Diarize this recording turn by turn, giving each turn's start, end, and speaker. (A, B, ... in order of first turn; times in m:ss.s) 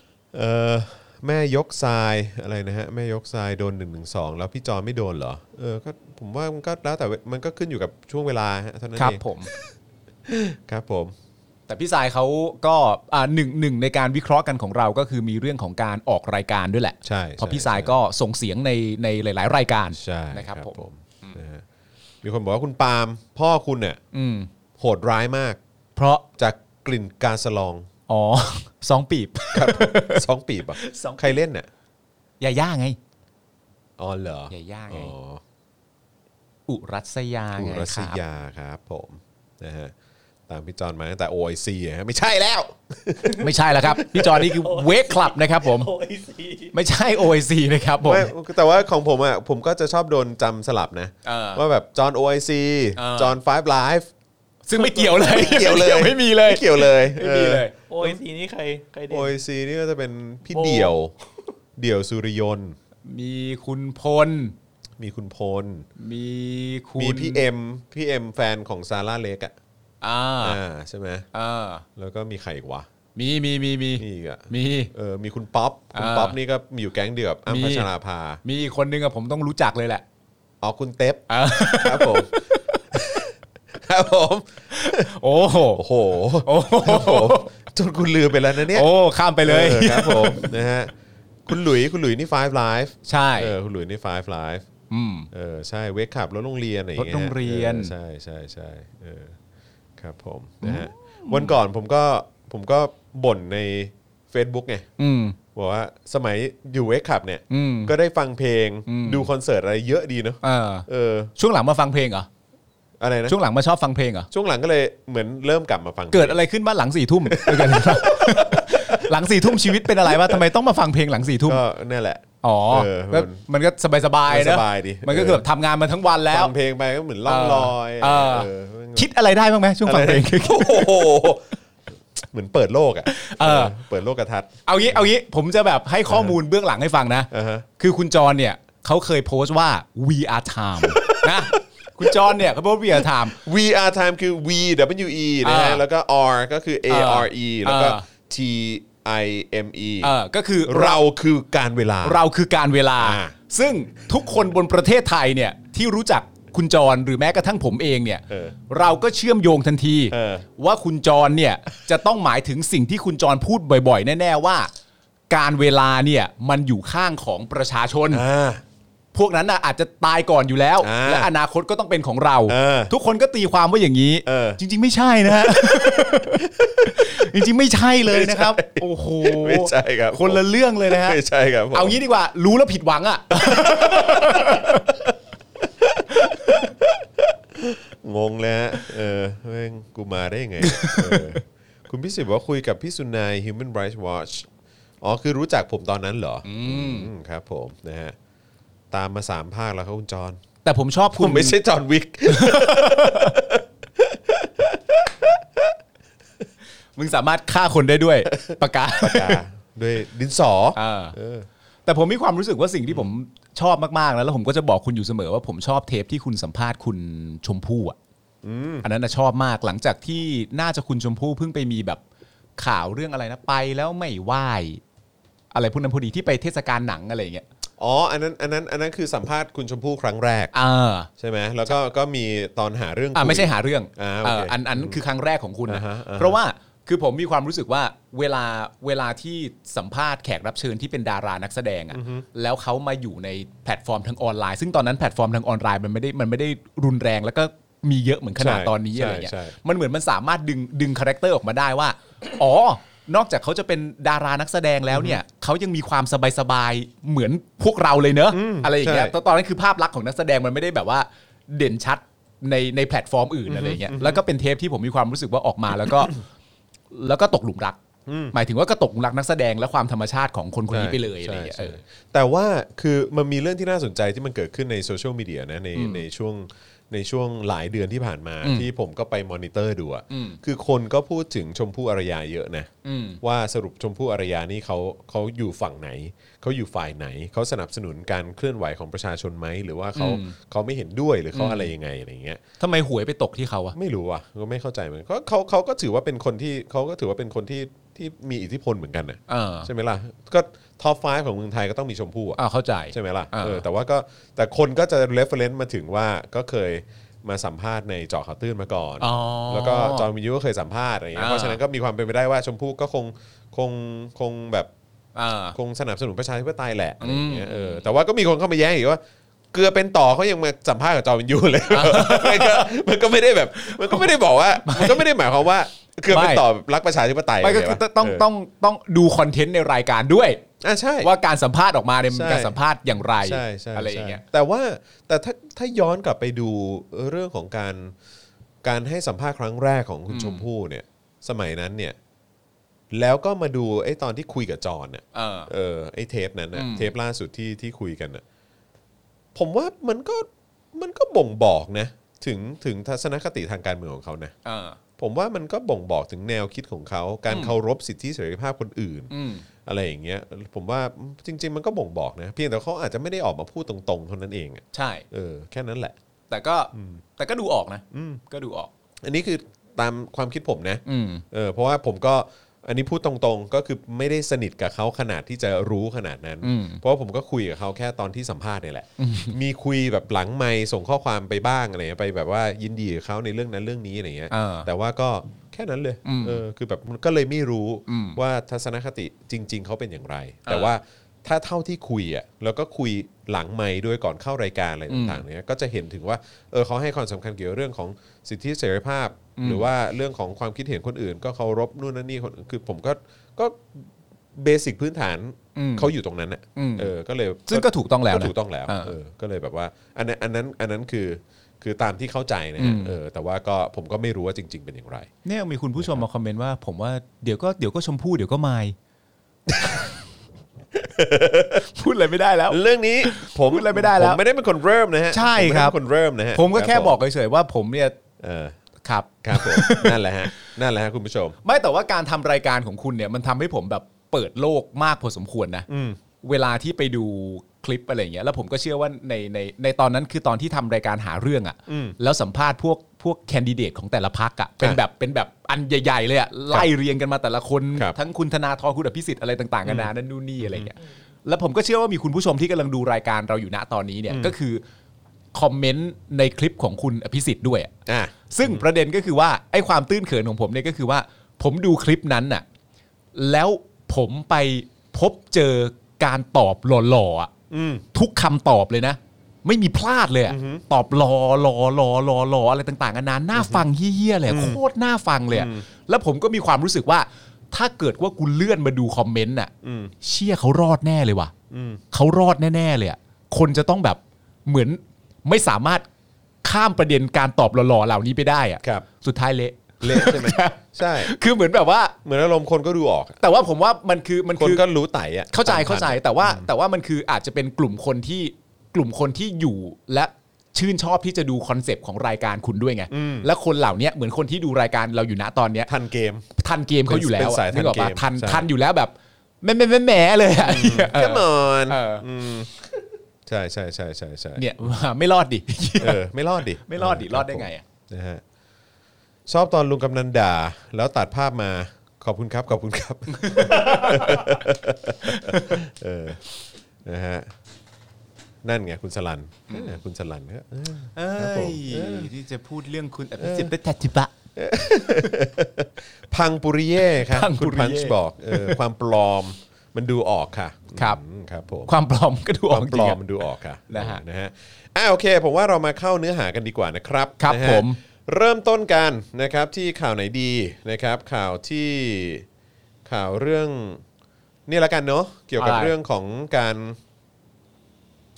0:00.3-0:09.7 A
0:09.0-0:09.5 B
0:10.3-0:11.1 A
0:11.7-0:21.4 B
0:17.0-0:17.9 A
0:20.0-0:21.6 A
0:22.2-0:24.0 A
0:24.1-0:24.5 B
0:24.8-0:25.6 A
0:26.0-0:26.2 B
0:26.4-0:27.9 A
0:28.1-0:30.2 B
0:29.5-0:31.7 A
0:30.8-0:31.3 B
0:32.4-0:33.0 B
0:34.0-0:35.4 A
0:34.5-0:35.1 B
0:36.7-0:38.2 B
0:37.6-0:39.9 A
0:40.5-0:44.5 A
0:43.4-0:45.9 B
0:44.3-0:46.7 C
0:46.7-0:48.3 B
0:48.0-0:54.1 A
0:51.2-0:51.6 B
0:53.0-0:53.4 B
0:54.6-0:57.7 B
0:54.8-0:55.5 C
0:55.2-0:58.2 A
0:57.9-0:59.4 C
0:59.1-1:01.1 A
1:00.5-1:01.0 C
1:01.8-1:02.8 A
1:03.0-1:04.5 B
1:05.0-1:05.9 A
1:06.0-1:07.4 B
1:07.0-1:09.5 A
1:10.0-1:10.6 B
1:10.4-1:11.2 A
1:11.3-1:11.8 B
1:12.0-1:12.9 A
1:13.2-1:14.9 B
1:14.0-1:18.4 A
1:15.9-1:16.4 B
1:17.5-1:17.9 B
1:18.4-1:20.0 B
1:20.6-1:25.1 A
1:21.3-1:22.7 B
1:24.7-1:25.8 B
1:25.7-1:28.9 A
1:26.4-1:27.5 B
1:28.7-1:30.5 B
1:29.4-1:30.9 A
1:31.5-1:34.6 A
1:33.0-1:33.5 B
1:34.9-1:35.3 B
1:35.3-1:39.4 A
1:37.0-1:37.9 B
1:40.0-1:44.8 A
1:40.6-1:41.6 B
1:45.0-1:45.4 B
1:45.5-1:51.3 A
1:47.5-1:47.9 B
1:48.9-1:49.3 B
1:50.4-1:52.3 B
1:53.0-1:53.4 A
1:53.2-1:54.3 B
1:54.3-1:56.4 A
1:56.1-2:01.6 B
1:57.2-2:00.4 A
2:01.4-2:03.4 A
2:02.4-2:06.5 B
2:04.3-2:05.4 A
2:06.3-2:09.1 A
2:07.2-2:11.2 B
2:09.8-2:11.5 A
2:12.2-2:15.1 A
2:13.1-2:13.7 B
2:14.6-2:23.4 B
2:16.1-2:16.4 A
2:17.3-2:17.6 A
2:20.8-2:22.4 A
2:23.0-2:30.1 A
2:25.4-2:25.8 B
2:26.9-2:28.0 B
2:30.0-2:31.0 B
2:30.6-2:32.2 A
2:32.0-2:44.7 B
2:33.0-2:33.3 A
2:38.3-2:38.6 A
2:40.1-2:40.4 A
2:45.3-2:48.2 B
2:48.1-2:48.6 A
2:49.1-3:01.2 B
2:50.8-2:51.3 A
2:52.5-2:52.9 A
2:54.2-2:54.6 A
2:55.3-2:57.3 A
2:58.1-3:02.0 A
3:01.7-3:04.9 B
3:03.3-3:14.5 A
3:06.3-3:06.5 B
3:10.6-3:11.4 B
3:15.0-3:18.1 A
3:16.4-3:17.1 B
3:18.9-3:20.4 A
3:20.6-3:21.6 B
3:21.1-3:25.7 A
3:22.3-3:23.3 B
3:27.0-3:29.4 B
3:28.5-3:31.5 A
3:30.7-3:31.2 B
3:31.8-3:38.0 B
3:38.4-3:38.8 A
3:38.8-3:42.0 B
3:42.6-3:44.8 B
3:45.5-3:47.4 B
3:47.8-3:50.5 A
3:50.5-3:51.1 B
3:51.2-3:55.0 A
3:53.1-4:26.2 B
3:55.7-3:56.4 A
4:01.9-4:02.2 A
4:08.4-4:09.5 A
4:14.9-4:15.2 A
4:18.3-4:19.1 A
4:23.5-4:24.2 A
4:26.9-4:27.8 B
4:28.1-4:28.3 A
4:28.3-4:31.8 B
4:30.7-4:42.7 A
4:35.7-4:36.0 B
4:38.4-4:38.7 B
4:40.1-4:40.4 B
4:42.8-4:43.2 B
4:43.2-4:52.4 A
4:49.9-4:50.4 B
4:51.3-4:51.7 B
4:52.6-4:53.7 B
4:53.7-5:02.4 A
4:59.3-4:59.7 B
5:02.4-5:03.6 B
5:02.9-5:14.7 A
5:09.0-5:10.1 B
5:11.1-5:11.6 B
5:15.1-5:15.6 B
5:15.5-5:19.0 A
5:17.0-5:17.8 B
5:19.5-5:28.3 A
5:21.7-5:22.7 B
5:23.6-5:24.1 B
5:24.6-5:25.0 B
5:26.1-5:26.4 B
5:27.4-5:30.4 B
5:30.6-5:31.1 A
5:31.0-5:34.2 B
5:32.1-5:32.6 A
5:33.2-5:37.9 A
5:38.6-5:42.0 A
5:40.1-5:40.4 B
5:42.9-5:48.2 A
5:45.1-5:45.5 B
5:46.5-5:46.9 B
5:49.3-5:54.3 A
5:54.4-5:54.8 B
5:55.0-5:59.1 A
5:57.3-5:57.5 B
5:59.1-5:59.4 B
5:59.6-6:05.9 A
6:04.7-6:05.0 B
6:06.3-6:08.7 B
6:06.7-6:07.0 A
6:07.9-6:08.2 A
6:09.0-6:55.1 A
6:10.8-6:11.2 B
6:16.4-6:16.8 B
6:19.0-6:19.3 B
6:24.3-6:24.7 B
6:26.0-6:26.4 B
6:27.9-6:28.2 B
6:34.9-6:35.2 B
6:39.4-6:39.7 B
6:45.5-6:45.9 B
6:46.6-6:46.9 B
6:47.5-6:48.9 B
6:52.6-6:52.9 B
6:55.2-6:58.7 B
6:55.8-6:56.0 A
6:59.5-6:59.8 A
7:00.7-7:01.6 A
7:01.6-7:04.2 B
7:02.5-7:07.0 A
7:05.1-7:05.7 B
7:06.3-7:07.9 B
7:08.2-7:08.5 A
7:08.8-7:10.0 B
7:09.2-7:11.4 A
7:11.4-7:15.7 B
7:15.7-7:16.0 A
7:16.2-7:34.6 B
7:21.7-7:22.0 A
7:29.6-7:30.7 A
7:34.1-7:34.3 A
7:35.3-7:37.7 B
7:37.8-7:38.6 A
7:38.3-7:42.4 B
7:43.1-7:47.3 B
7:47.5-7:47.8 A
7:47.9-8:01.3 B
7:50.3-7:50.6 A
7:53.3-7:53.7 A
7:54.3-7:54.6 A
7:55.3-7:55.6 A
7:59.6-7:59.9 A
8:01.5-8:01.8 A
8:01.9-8:05.8 B
8:06.4-8:11.9 B
8:09.8-8:11.1 A
8:12.0-8:13.2 A
8:13.2-8:14.6 B
8:14.4-8:16.5 A
8:15.3-8:25.7 B
8:22.9-8:23.3 A
8:25.7-8:26.2 A
8:26.4-8:32.0 B
8:26.8-8:28.5 A
8:30.4-8:32.6 A
8:33.2-8:34.5 A
8:34.4-8:36.0 B
8:35.8-8:38.2 A
8:36.6-8:37.6 B
8:39.3-8:46.2 A
8:43.1-8:44.4 B
8:45.0-8:45.6 B
8:46.8-8:47.3 A
8:48.4-8:52.1 A
8:49.5-8:49.8 B
8:50.9-8:54.1 B
8:53.2-8:53.5 A
8:54.4-9:01.7 A
8:56.9-8:58.6 B
9:01.7-9:03.0 B
9:02.5-9:12.2 A
9:03.7-9:04.0 B
9:07.2-9:07.8 B
9:12.8-9:13.8 A
9:14.5-9:16.8 A
9:15.4-9:15.7 B